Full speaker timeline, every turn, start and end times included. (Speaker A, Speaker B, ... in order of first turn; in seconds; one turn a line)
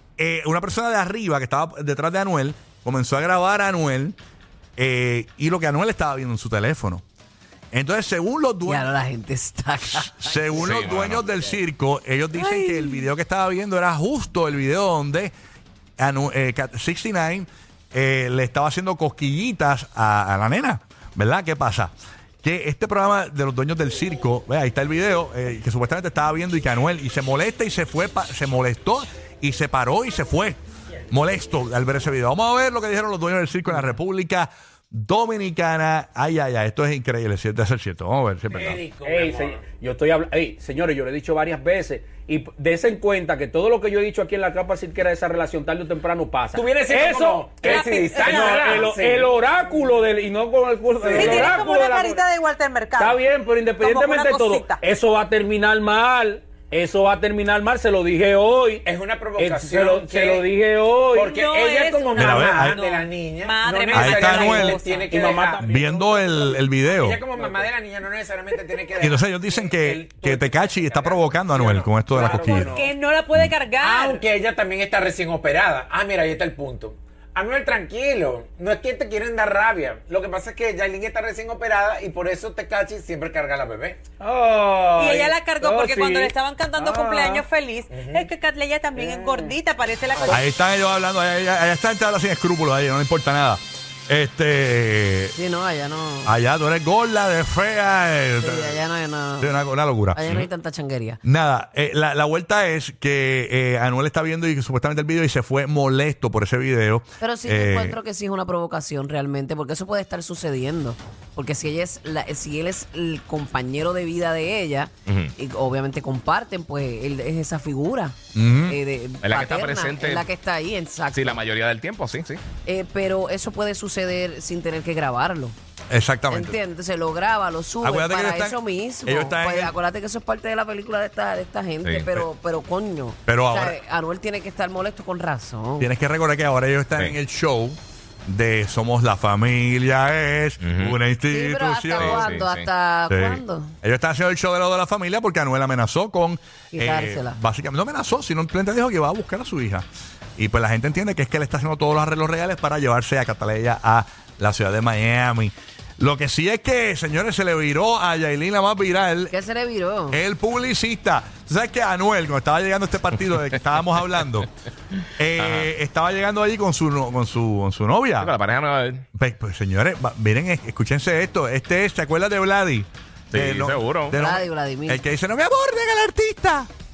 Speaker A: 0.2-4.2
Speaker A: 4.8-7.0
Speaker A: 7.7-8.9
Speaker B: 8.7-10.7
Speaker A: 9.9-15.3
Speaker C: 10.6-11.3
Speaker B: 12.4-13.0
Speaker A: 16.0-30.6
Speaker A: 31.1-38.8
Speaker D: 38.5-39.6
Speaker E: 39.0-52.2
Speaker D: 46.5-49.3
Speaker F: 47.6-48.6
Speaker D: 51.0-51.4
Speaker F: 51.1-53.2
Speaker E: 53.0-61.8
Speaker F: 53.8-54.8
Speaker D: 58.9-60.5
Speaker D: 61.1-73.0
Speaker F: 61.2-65.1
Speaker A: 62.1-62.8
Speaker A: 63.9-64.8
Speaker E: 65.1-66.3
Speaker A: 65.6-67.2
Speaker E: 67.4-67.7
Speaker A: 69.0-72.8
Speaker E: 72.3-72.5
Speaker F: 72.5-74.2
Speaker D: 73.8-84.0
Speaker E: 84.2-87.2
Speaker F: 84.9-90.5
Speaker D: 87.2-88.3
Speaker A: 90.3-95.3
Speaker B: 95.4-96.3
Speaker A: 96.3-98.8
Speaker B: 98.4-99.6
Speaker A: 99.4-100.2
Speaker B: 100.1-101.2
Speaker A: 101.2-108.0
Speaker B: 107.2-121.4
Speaker C: 115.1-115.3
Speaker A: 118.3-118.8
Speaker C: 119.2-120.3
Speaker C: 121.1-122.4
Speaker B: 122.7-125.6
Speaker A: 125.9-126.6
Speaker B: 126.3-135.9
Speaker A: 127.8-129.7
Speaker C: 131.8-132.2
Speaker A: 133.3-133.8
Speaker A: 135.8-142.4
Speaker C: 140.6-141.0
Speaker B: 141.3-143.7
Speaker C: 142.0-142.7
Speaker A: 143.1-159.3
Speaker B: 146.7-147.4
Speaker B: 159.3-160.2
Speaker A: 160.1-164.5
Speaker A: 165.2-168.3
Speaker C: 165.4-165.7
Speaker C: 168.2-169.1
Speaker A: 169.2-176.7
Speaker C: 173.3-174.2
Speaker B: 174.2-175.0